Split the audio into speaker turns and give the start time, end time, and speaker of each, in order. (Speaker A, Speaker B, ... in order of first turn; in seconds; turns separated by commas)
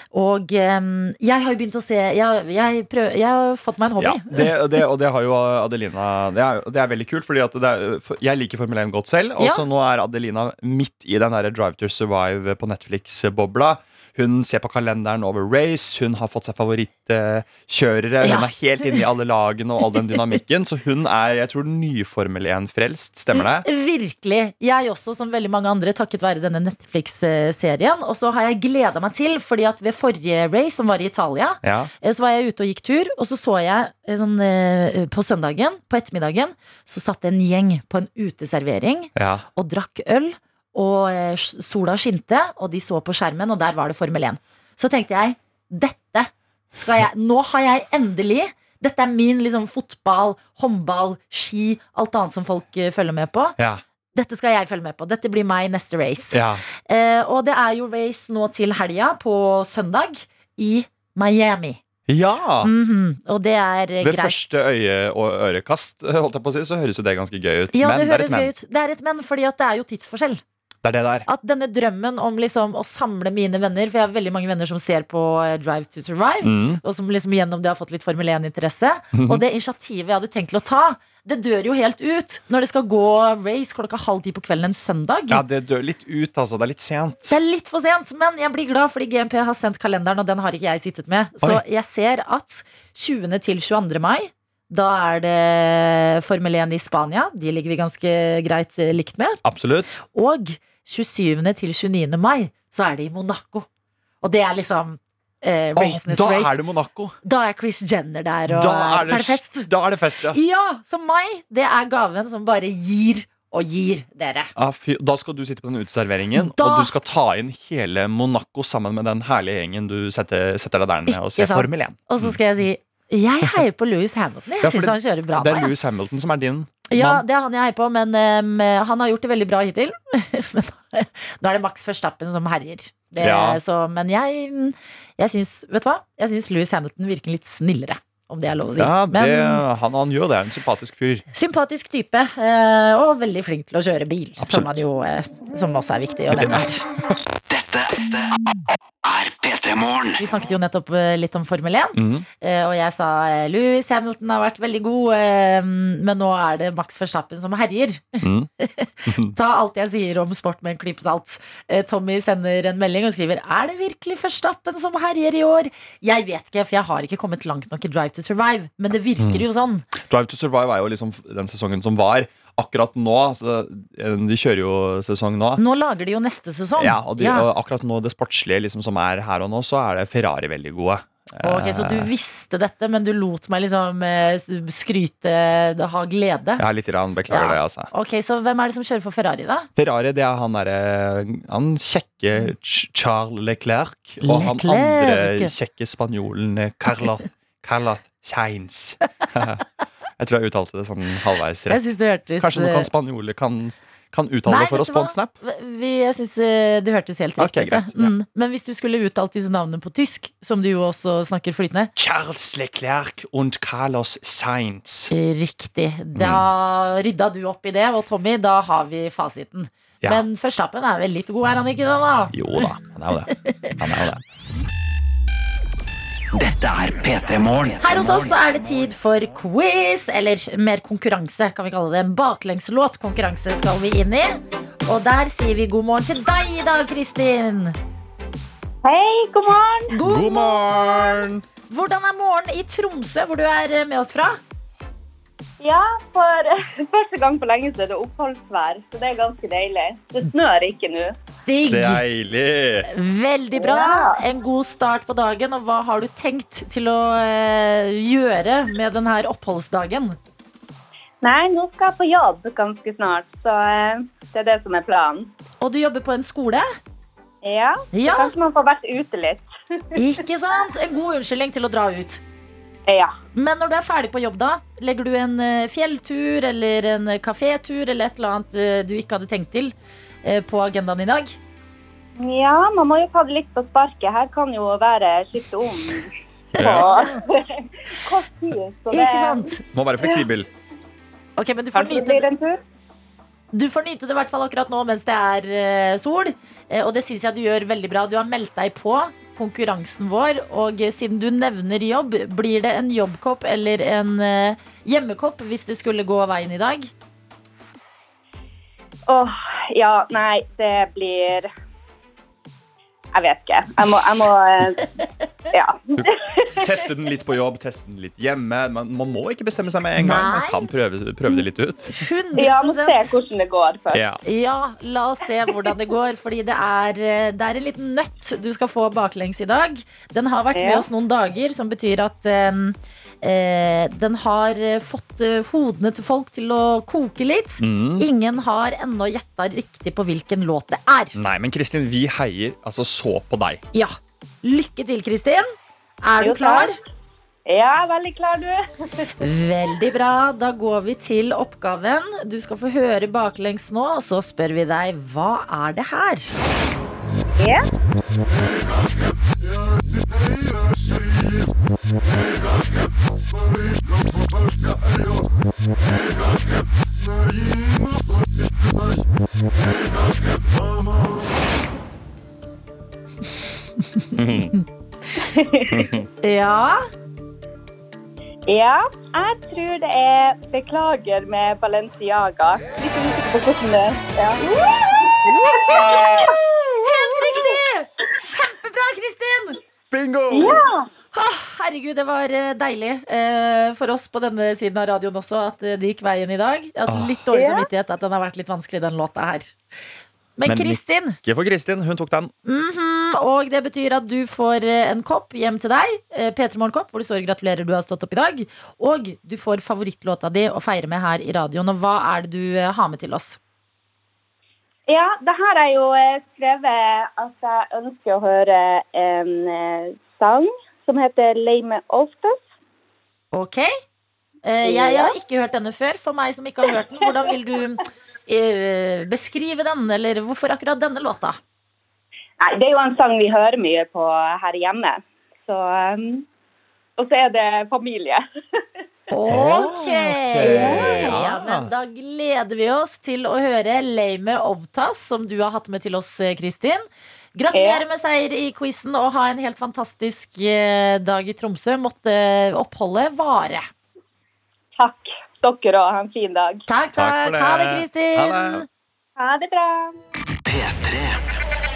Speaker A: 0.1-4.5, Speaker B: 4.0-23.6, Speaker A: 9.4-9.6, Speaker A: 18.2-18.9, Speaker A: 23.3-53.6, Speaker B: 31.6-31.9, Speaker B: 39.1-39.4, Speaker A: 54.1-61.8, Speaker B: 56.3-56.6, Speaker B: 62.1-62.7, Speaker A: 62.6-64.4, Speaker B: 64.0-68.5, Speaker A: 67.7-70.4, Speaker B: 70.8-71.2, Speaker A: 71.2-85.4, Speaker B: 76.4-76.8, Speaker B: 79.1-79.4, Speaker B: 85.3-87.4, Speaker A: 87.3-99.4, Speaker B: 99.4-99.9, Speaker A: 99.9-103.7, Speaker A: 104.2-106.5, Speaker B: 105.8-107.2, Speaker A: 107.2-109.7, Speaker B: 108.5-110.4, Speaker A: 110.3-114.5, Speaker B: 114.5-122.4, Speaker A: 116.3-116.9, Speaker A: 121.1-125.7, Speaker B: 124.6-127.2, Speaker A: 126.9-139.6, Speaker B: 133.2-133.6, Speaker B: 138.7-141.2, Speaker A: 141.3-146.8, Speaker B: 144.4-144.7, Speaker B: 146.3-146.6, Speaker C: 147.5-148.3, Speaker C: 149.0-150.2, Speaker A: 150.2-169.9, Speaker B: 151.9-152.2, Speaker B: 158.2-158.5, Speaker B: 159.1-159.3, Speaker B: 170.1-175.6, Speaker A: 175.6-177.5, Speaker B: 176.8-182.1, Speaker A: 181.4-186.6, Speaker B: 186.6-187.9, Speaker A: 187.3-189.7, Speaker B: 189.7-199.6, Speaker A: 194.2-195.5, Speaker B: 200.2-205.3, Speaker A: 201.7-202.9, Speaker A: 204.5-211.9, Speaker B: 207.4-208.1, Speaker B: 211.9-215.1, Speaker A: 215.1-222.7, Speaker B: 216.1-216.4, Speaker B: 222.3-224.2, Speaker A: 223.4-223.7, Speaker C: 226.3-228.4, Speaker A: 227.8-237.8, Speaker D: 238.8-239.9, Speaker A: 239.9-244.4, Speaker B: 240.0-241.4, Speaker D: 245.6-251.1, Speaker A: 251.5-252.0, Speaker B: 251.6-252.9, Speaker A: 252.9-260.1, Speaker D: 253.5-254.2, Speaker D: 261.2-265.3, Speaker A: 265.6-266.7, Speaker D: 267.4-269.5, Speaker A: 267.9-268.3, Speaker A: 269.9-272.2, Speaker D: 272.9-273.1, Speaker A: 273.3-281.4, Speaker D: 282.2-290.2, Speaker B: 286.6-287.1, Speaker A: 286.6-287.1, Speaker A: 288.9-289.6, Speaker B: 289.7-290.5, Speaker A: 291.4-292.2, Speaker D: 291.7-292.6, Speaker A: 293.5-306.9, Speaker D: 309.1-311.5, Speaker D: 313.1-314.9, Speaker D: 315.5-316.7, Speaker B: 315.9-322.0, Speaker A: 320.0-320.7, Speaker A: 321.9-323.1, Speaker D: 322.4-324.0, Speaker B: 323.9-324.2, Speaker A: 324.2-341.2, Speaker D: 330.5-330.9, Speaker B: 337.6-338.1, Speaker B: 341.1-343.6, Speaker A: 343.7-345.5, Speaker A: 346.0-346.8, Speaker D: 346.2-346.8, Speaker D: 347.5-348.6, Speaker A: 349.2-356.3, Speaker D: 357.4-357.6, Speaker B: 374.1-374.5, Speaker D: 375.2-375.9, Speaker B: 375.7-376.1, Speaker A: 376.2-376.8, Speaker D: 378.5-386.3, Speaker A: 384.4-389.6, Speaker B: 385.7-387.5, Speaker B: 389.9-390.6, Speaker D: 390.3-390.9, Speaker A: 391.1-399.5, Speaker B: 396.9-397.2, Speaker D: 397.3-397.7, Speaker A: 400.4-401.2, Speaker B: 400.4-402.3, Speaker A: 402.4-413.4, Speaker D: 414.9-422.4, Speaker A: 423.3-423.7, Speaker A: 424.4-431.4, Speaker D: 424.6-425.2, Speaker D: 432.4-436.2, Speaker D: 437.0-438.2, Speaker A: 439.1-453.7, Speaker B: 439.3-441.7, Speaker D: 440.4-440.9, Speaker D: 447.5-447.8, Speaker D: 454.8-456.6, Speaker A: 456.7-458.6, Speaker B: 456.9-458.6, Speaker D: 459.2-459.9, Speaker C: 460.4-461.2